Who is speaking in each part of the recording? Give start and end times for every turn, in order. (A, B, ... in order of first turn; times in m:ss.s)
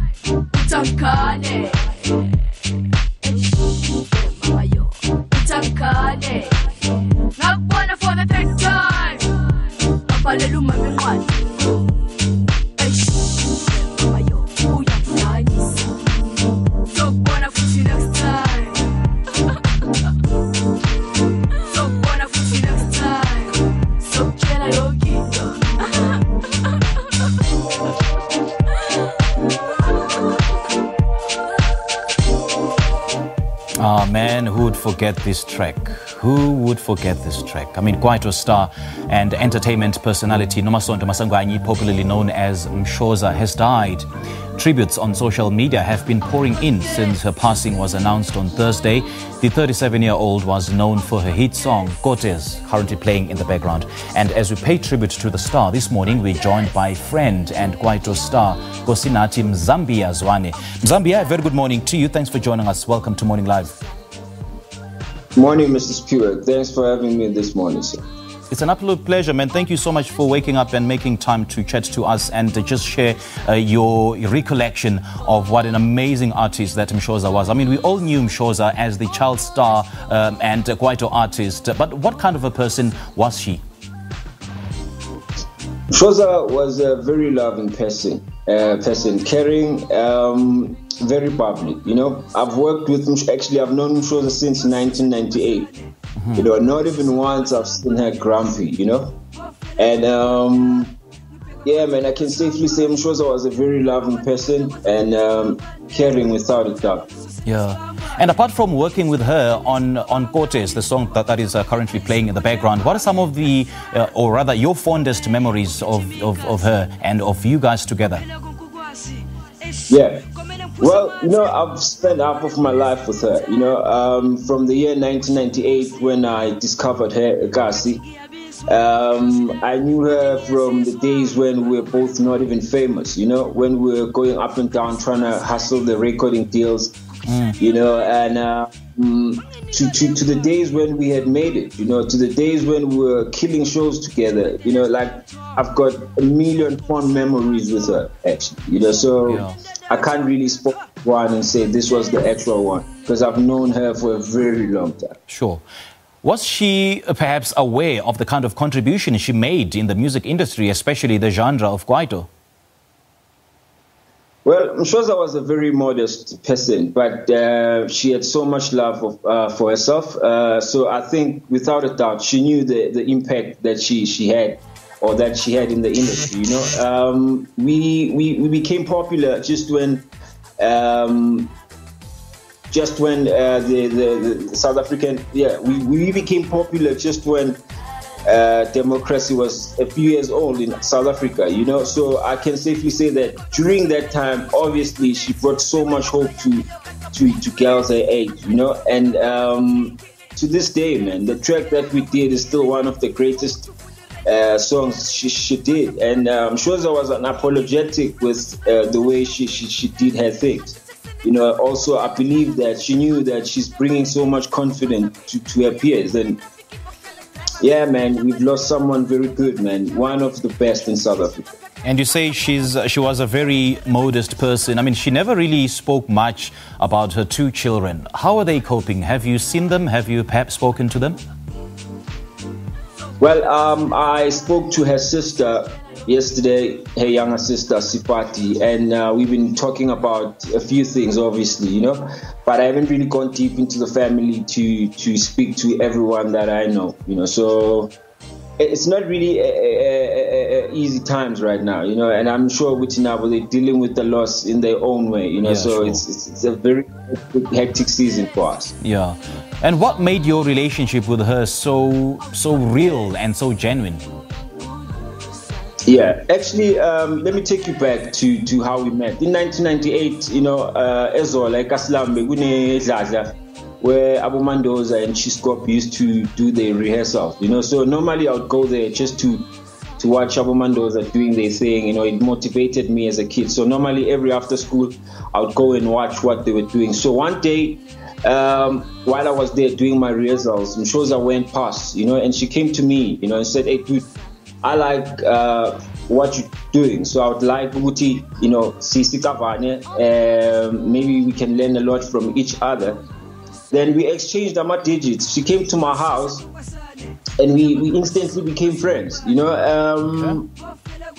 0:00.4-0:02.5 A
0:03.2-0:12.0 A
0:12.8-0:16.0 A
0:16.8-0:18.9 A
0:21.5-0:26.8 A
0:33.8-1:03.8 B
1:05.4-1:08.0 C
1:08.5-1:23.6 B
1:25.9-1:35.7 C
1:36.3-1:39.2 C
1:39.8-1:40.9 C
1:41.6-1:47.1 C
1:47.4-1:58.3 B
1:59.9-2:00.2 C
2:00.8-2:08.1 C
2:08.7-2:17.0 C
2:17.3-2:17.6 B
2:17.6-2:35.2 C
2:29.2-2:29.6 B
2:35.3-2:35.6 B
2:36.2-2:42.3 B
2:44.4-3:00.1 C
3:00.6-3:01.5 C
3:02.7-3:07.6 C
3:08.2-3:23.7 C
3:24.2-3:36.4 C
3:37.6-3:41.5 C
3:41.8-3:51.2 B
3:53.2-4:07.9 C
4:08.6-4:18.7 C
4:15.4-4:16.0 B
4:18.8-4:24.0 B
4:25.8-4:54.1 C
4:54.6-5:03.0 C
5:03.7-5:06.5 C
5:07.4-5:10.5 C